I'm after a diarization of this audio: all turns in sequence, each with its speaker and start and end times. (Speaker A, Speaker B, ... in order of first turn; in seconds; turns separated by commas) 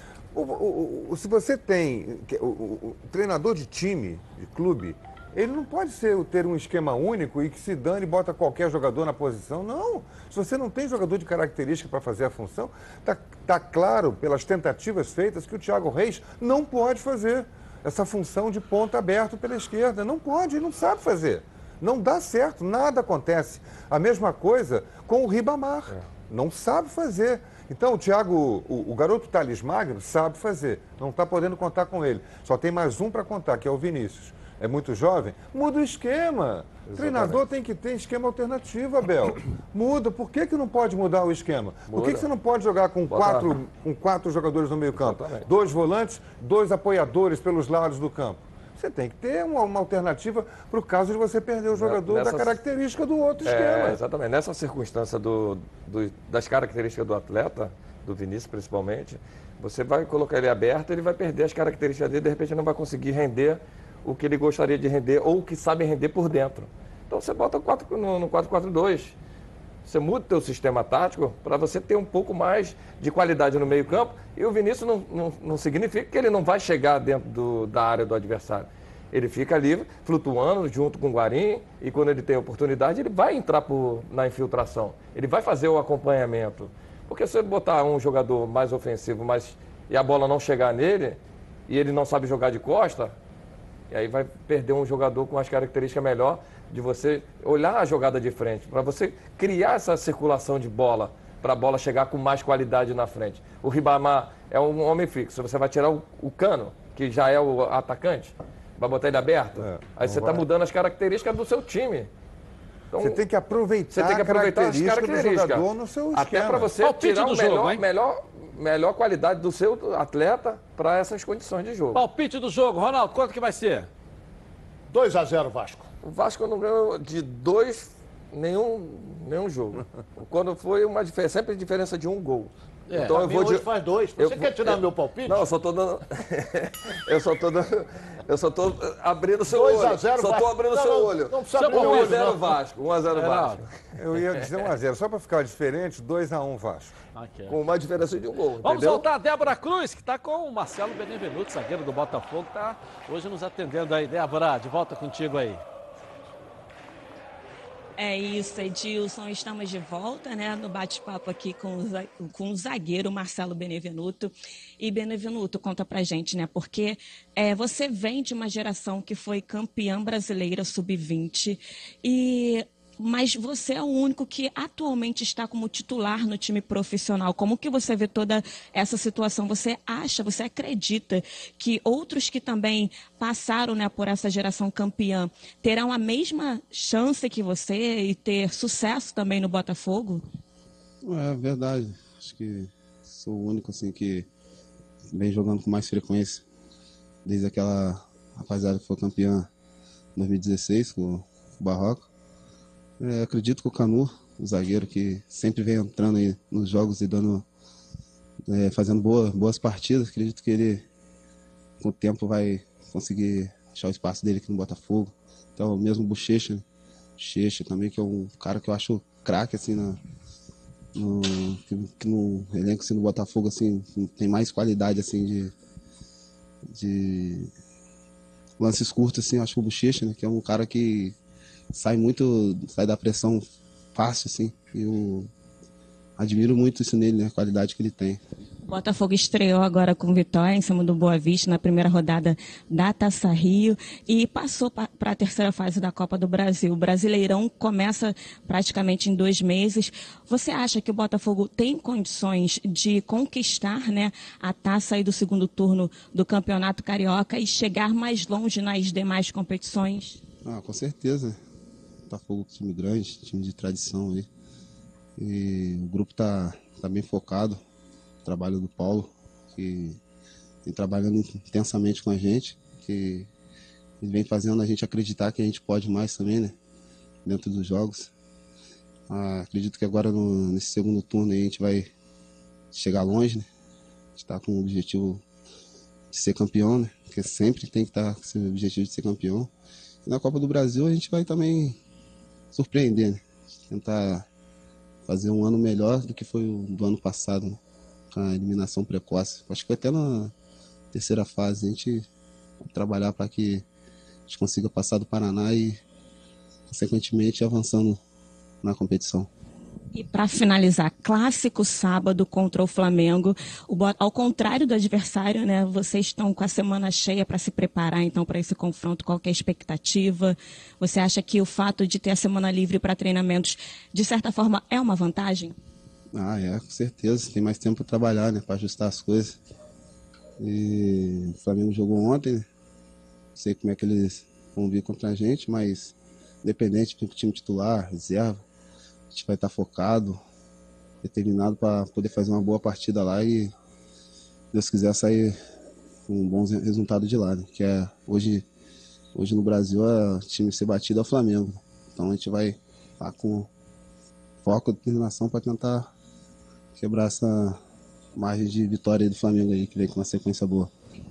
Speaker A: 0.3-54.0, Speaker B: 36.9-37.4, Speaker B: 41.9-42.2, Speaker B: 43.1-43.5, Speaker B: 44.9-45.5, Speaker B: 51.7-52.5, Speaker B: 53.4-69.1, Speaker B: 69.8-93.2, Speaker B: 93.9-112.1, Speaker A: 109.6-110.5, Speaker B: 112.9-113.2, Speaker A: 113.0-116.7, Speaker B: 113.9-122.0, Speaker C: 116.8-117.8, Speaker C: 121.9-123.9, Speaker D: 124.9-125.9, Speaker B: 126.0-143.7, Speaker C: 132.9-133.2, Speaker D: 133.1-135.4, Speaker D: 139.5-142.5, Speaker C: 141.6-142.3, Speaker C: 143.1-143.6, Speaker A: 143.9-146.9, Speaker C: 147.1-147.6, Speaker B: 147.5-149.0, Speaker C: 148.6-155.6, Speaker E: 158.0-190.2, Speaker F: 191.0-194.3, Speaker F: 195.1-196.4, Speaker F: 197.2-199.5, Speaker F: 200.2-202.1, Speaker F: 203.0-207.4, Speaker F: 208.5-210.8, Speaker F: 211.8-216.6, Speaker F: 217.2-220.0, Speaker F: 220.9-225.5, Speaker F: 226.7-227.5, Speaker F: 228.6-231.1, Speaker F: 231.7-235.3, Speaker F: 236.2-238.2, Speaker E: 238.7-260.2, Speaker F: 260.4-261.4, Speaker F: 262.1-264.3, Speaker F: 265.2-267.6, Speaker F: 268.2-270.0, Speaker F: 270.6-273.3, Speaker F: 274.0-276.5, Speaker F: 277.2-278.1, Speaker F: 279.1-281.9, Speaker F: 282.7-283.4, Speaker F: 284.1-285.2, Speaker F: 286.1-289.5, Speaker F: 290.1-291.8, Speaker F: 292.5-294.2, Speaker F: 295.1-297.6, Speaker F: 298.1-300.3, Speaker F: 300.9-302.1, Speaker F: 302.6-303.6, Speaker F: 304.3-305.8, Speaker F: 306.7-308.0, Speaker F: 308.6-309.3, Speaker E: 309.9-325.5, Speaker F: 326.1-329.4, Speaker F: 330.4-332.4, Speaker F: 333.3-338.4, Speaker F: 339.1-340.2, Speaker F: 341.0-343.5, Speaker F: 344.5-345.3, Speaker F: 346.1-348.4, Speaker F: 349.1-353.5, Speaker F: 354.4-355.9, Speaker F: 356.7-357.6, Speaker F: 358.1-360.7